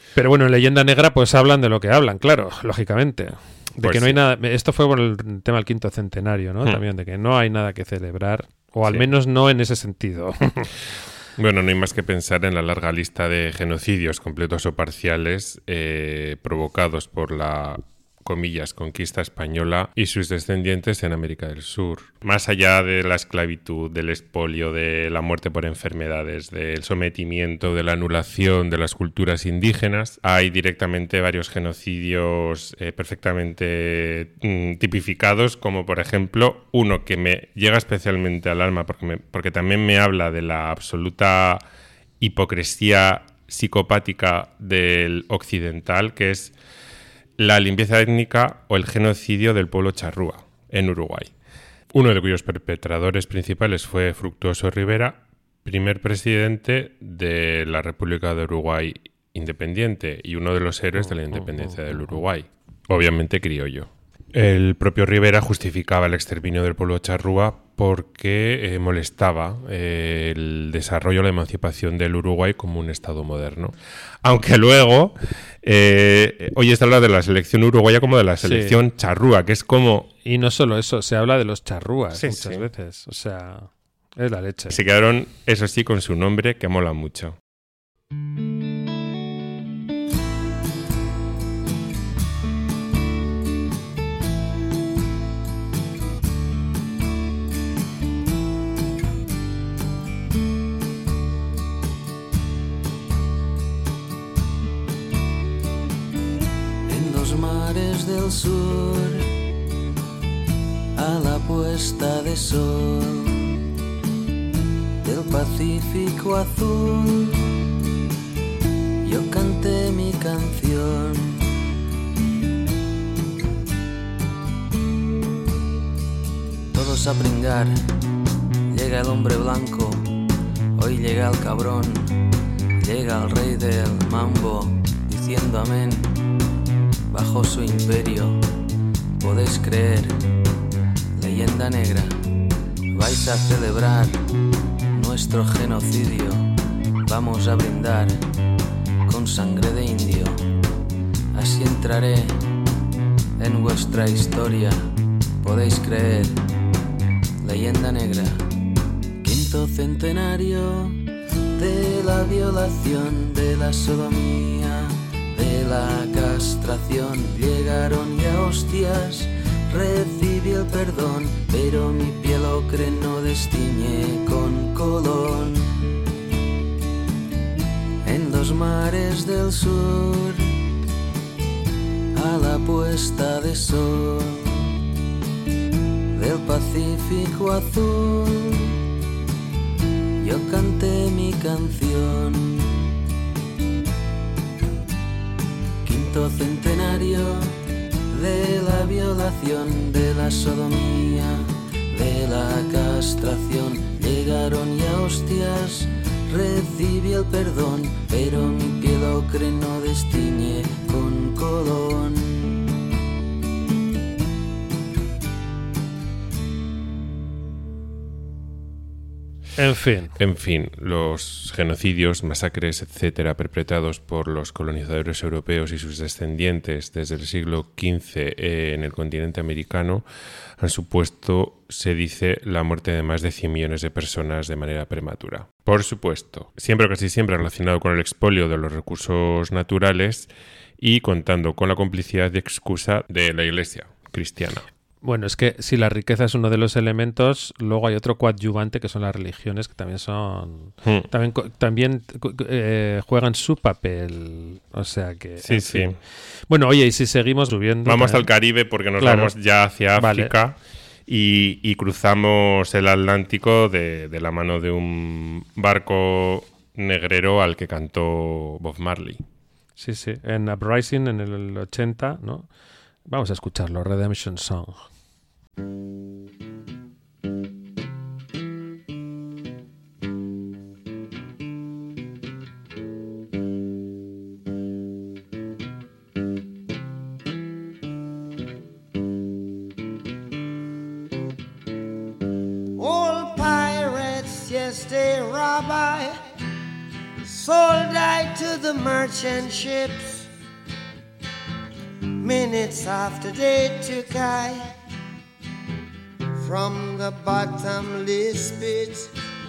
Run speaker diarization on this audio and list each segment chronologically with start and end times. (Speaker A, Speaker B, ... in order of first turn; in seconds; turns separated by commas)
Speaker A: 0.1-10.7, Speaker B: 3.8-4.2, Speaker B: 8.8-9.1, Speaker B: 11.3-41.6, Speaker B: 42.2-46.5, Speaker B: 47.4-51.3, Speaker B: 51.9-80.1, Speaker A: 61.3-62.2, Speaker A: 78.4-78.8, Speaker A: 80.2-84.8, Speaker B: 82.1-82.7, Speaker B: 84.7-87.4, Speaker C: 106.9-109.3, Speaker C: 111.0-113.6, Speaker C: 115.0-117.5, Speaker C: 119.0-121.5, Speaker C: 126.7-127.8, Speaker C: 128.7-130.1, Speaker C: 130.8-132.1, Speaker C: 132.8-136.1, Speaker C: 137.1-138.4, Speaker C: 139.2-140.2, Speaker C: 141.2-142.1, Speaker C: 142.9-144.2, Speaker C: 144.9-146.5, Speaker C: 147.1-148.2, Speaker C: 149.1-150.4, Speaker C: 151.3-152.4, Speaker C: 153.4-154.9, Speaker C: 155.4-156.4, Speaker C: 157.4-158.4, Speaker C: 159.2-161.0, Speaker C: 161.6-175.7, Speaker C: 178.0-180.5, Speaker C: 182.1-184.7, Speaker C: 186.2-188.7, Speaker C: 190.2-192.8, Speaker C: 195.8-197.5, Speaker C: 198.1-212.6, Speaker A: 219.6-220.1, Speaker B: 220.2-230.1, Speaker B: 230.6-244.7, Speaker A: 245.0-255.9, Speaker B: 250.8-251.1, Speaker B: 255.4-256.0, Speaker A: 256.5-258.3, Speaker B: 257.9-269.2, Speaker A: 259.0-259.4, Speaker A: 259.9-260.3, Speaker A: 269.8-272.5, Speaker A: 273.1-274.9, Speaker D: 292.8-296.2, Speaker D: 297.2-300.3, Speaker D: 302.2-304.7, Speaker D: 306.4-309.1